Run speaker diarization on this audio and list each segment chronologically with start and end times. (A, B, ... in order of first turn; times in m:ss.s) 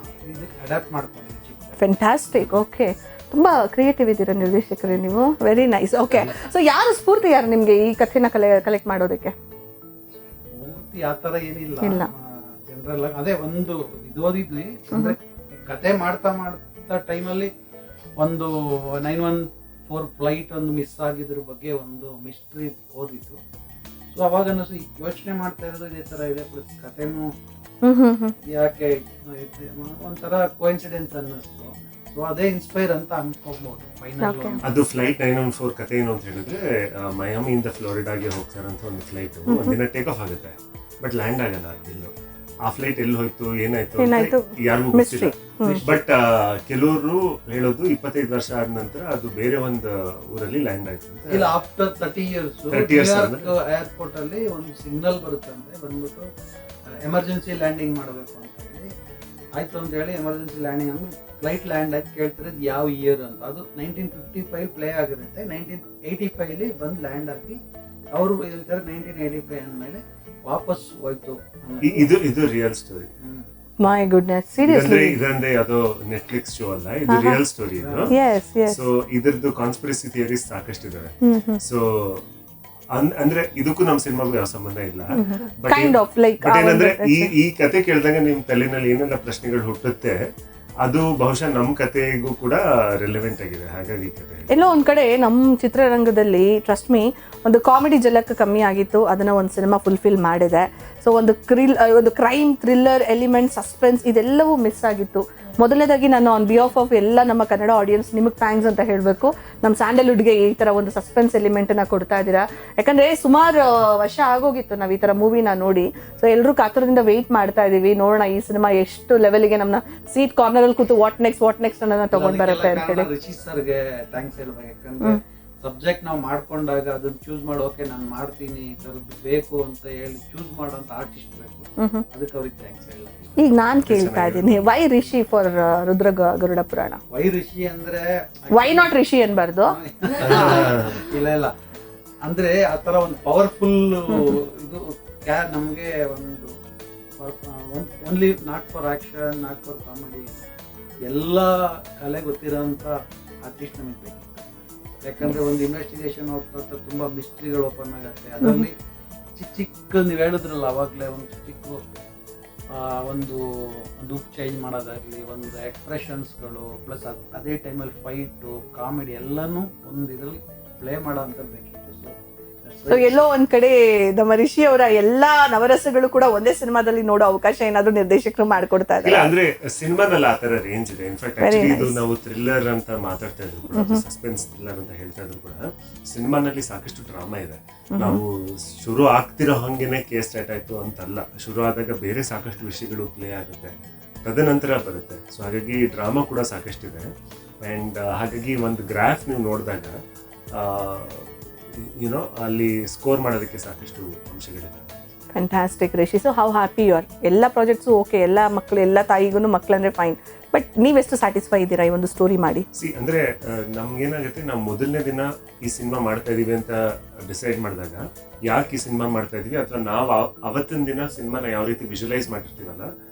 0:00.3-0:01.8 A
0:01.8-0:09.3 B
0:10.6-0:12.1 A
0:11.8-0:12.1 B
0:12.7-0:17.5 A
0:14.9-0:15.2 B
0:18.2-0:23.4 A
0:24.1-0:27.3 A
0:27.8-0:28.3 B
0:28.5-0:34.6 A
0:34.2-0:34.6 B
0:34.6-0:42.1 C
0:39.5-0:39.8 B
0:42.6-0:51.5 C
0:44.0-0:45.8 B
0:45.6-0:46.0 A
0:51.3-0:56.2 A
0:52.7-0:53.5 C
0:57.0-0:58.9 A
0:59.5-1:07.6 A
1:08.1-1:12.4 A
1:11.8-1:13.1 C
1:13.2-1:13.5 A
1:13.8-1:15.2 B
1:14.6-1:18.1 C
1:17.1-1:17.4 B
1:17.8-1:18.1 A
1:18.1-1:18.8 B
1:18.7-1:22.2 C
1:21.2-1:21.6 B
1:22.9-1:30.1 C
1:25.1-1:27.3 B
1:30.8-1:34.7 C
1:34.5-2:03.1 B
2:02.1-2:13.5 A
2:11.8-2:12.0 B
2:13.4-2:17.0 B
2:13.8-2:14.7 C
2:17.1-2:18.9 A
2:18.5-2:20.7 B
2:19.7-2:21.5 A
2:20.2-2:21.0 C
2:22.2-2:26.5 A
2:24.1-2:24.3 B
2:27.2-2:30.4 A
2:31.1-2:32.9 A
2:33.4-2:34.4 A
2:35.0-2:38.7 A
2:38.4-2:38.7 B
2:39.4-2:41.8 A
2:42.7-2:53.3 A
2:52.9-2:59.3 B
2:59.0-3:13.7 C
3:01.4-3:02.0 B
3:03.7-3:04.0 B
3:07.9-3:08.2 B
3:14.2-3:17.1 C
3:17.6-3:19.9 C
3:20.6-3:25.0 C
3:25.3-3:32.6 B
3:32.8-3:36.8 C
3:37.3-3:42.9 C